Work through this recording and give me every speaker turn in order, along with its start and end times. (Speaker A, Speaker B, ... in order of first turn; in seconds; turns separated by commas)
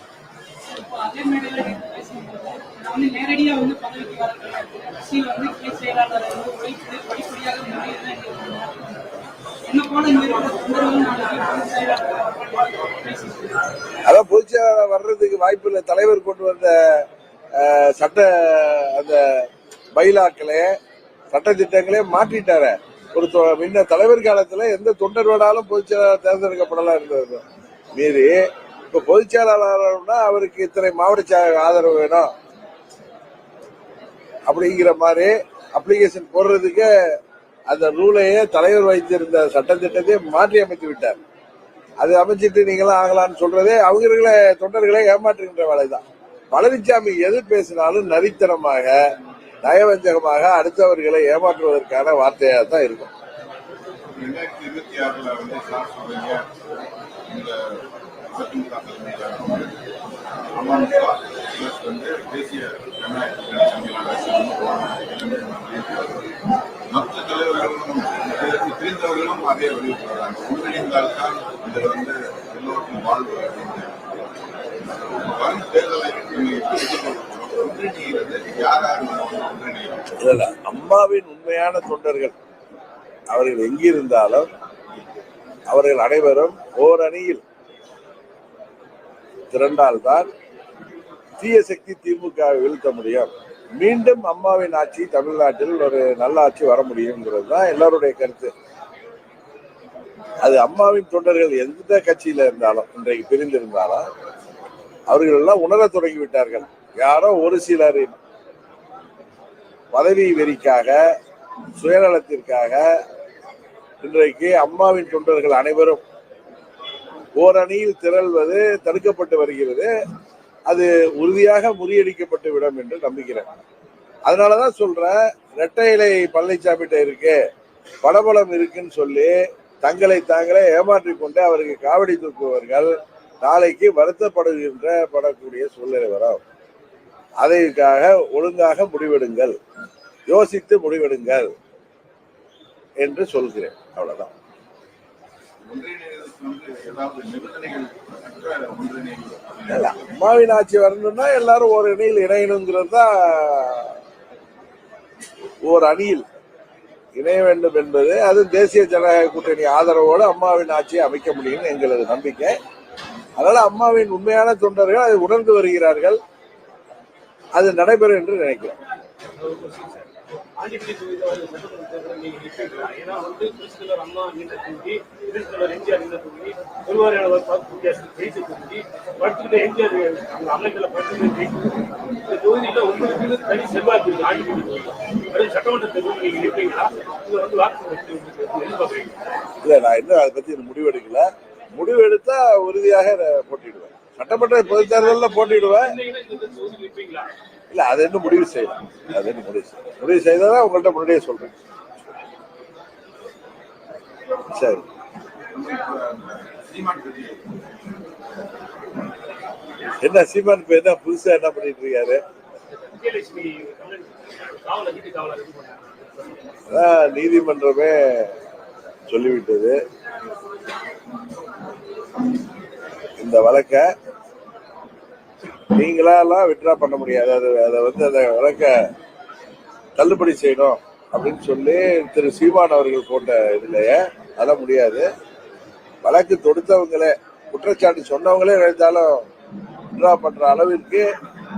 Speaker A: 0.7-9.0, Speaker A: 9.7-13.3, Speaker B: 14.0-17.0, Speaker B: 17.5-20.7, Speaker B: 21.3-28.3, Speaker B: 28.9-32.3, Speaker B: 34.5-36.9, Speaker B: 37.7-41.2, Speaker B: 42.0-48.9, Speaker B: 49.6-53.1, Speaker C: 54.1-56.8, Speaker C: 57.3-57.8, Speaker C: 58.3-59.7, Speaker C: 60.5-66.3, Speaker C: 66.9-74.0, Speaker C: 75.2-80.0, Speaker B: 80.2-82.3, Speaker B: 83.3-84.5, Speaker B: 85.7-87.4, Speaker B: 89.5-90.3, Speaker B: 91.4-98.5, Speaker B: 100.4-104.0, Speaker B: 105.1-108.1, Speaker B: 109.9-111.0, Speaker B: 111.8-112.8, Speaker B: 114.0-116.0, Speaker B: 117.4-119.9, Speaker B: 120.7-123.5, Speaker B: 124.2-127.4, Speaker B: 128.0-132.9, Speaker B: 133.4-136.4, Speaker B: 137.4-139.6, Speaker B: 140.3-141.5, Speaker B: 143.0-144.3, Speaker C: 145.6-149.9, Speaker B: 149.7-154.0, Speaker B: 155.6-156.2, Speaker B: 157.1-162.5, Speaker B: 163.4-166.2, Speaker B: 167.5-168.8, Speaker D: 169.4-181.7, Speaker D: 182.3-189.1, Speaker B: 189.6-195.9, Speaker D: 194.6-197.3, Speaker B: 197.7-201.5, Speaker B: 204.5-204.8, Speaker C: 205.5-207.4, Speaker B: 210.0-212.2, Speaker D: 212.9-216.4, Speaker B: 216.7-218.3, Speaker B: 219.1-219.8, Speaker B: 223.2-223.8, Speaker B: 225.7-228.7, Speaker B: 230.0-235.1, Speaker B: 236.0-239.2, Speaker B: 239.9-241.0